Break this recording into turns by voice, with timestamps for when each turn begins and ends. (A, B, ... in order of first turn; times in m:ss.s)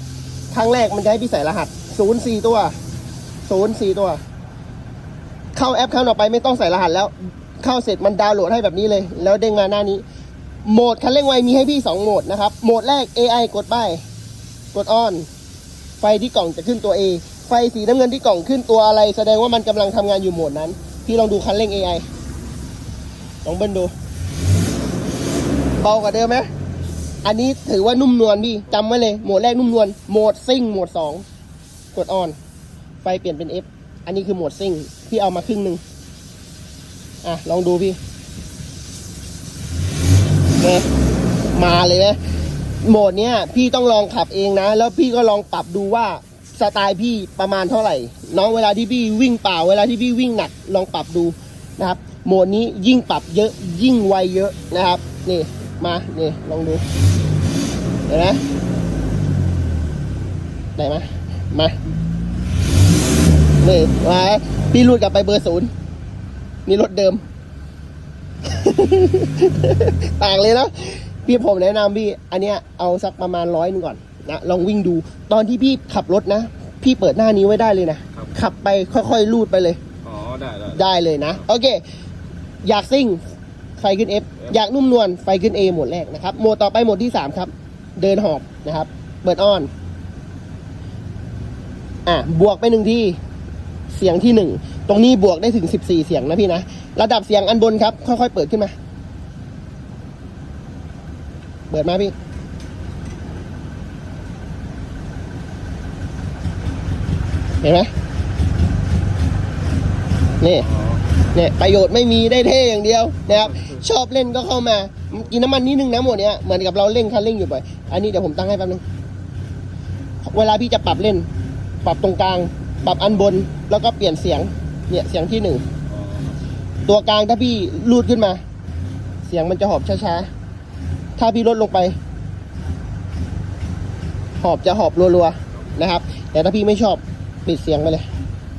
0:00.5-0:02.8 A
0:03.5-0:04.2 A
0:05.6-0:10.0 A
0:10.6-0:14.0 A
0:14.7-0:15.3 A
0:16.0-0:22.1 A
0:23.4-0:23.9 A
0:25.8-0:26.5 A
0:27.2-0:31.2 A
0:31.9-0:32.4 A
0:33.0-0:35.8 A
0:37.2-0:38.0 A
0:40.6-0:40.9 A
0:41.6-0:42.2 A
0:42.8-0:56.8 A
0:58.1-0:58.4 A
1:00.8-1:01.8 A
1:03.6-1:05.7 A
1:06.7-1:07.2 A
1:08.5-1:19.8 A
1:20.0-1:20.8 B
1:20.7-1:21.8 A
1:22.6-1:23.2 A
1:23.8-1:29.7 A
1:32.1-1:33.2 A
1:33.9-1:38.7 A
1:41.7-1:42.2 A
1:47.6-1:47.9 A
1:50.4-1:50.7 A
1:50.7-1:51.0 B
1:51.3-1:58.8 A
1:53.4-1:53.8 B
2:00.2-2:01.3 A
2:01.8-2:05.6 A
2:05.9-2:06.4 B
2:06.9-2:08.4 A
2:09.3-2:10.3 A
2:11.2-2:12.0 A
2:14.4-2:18.1 A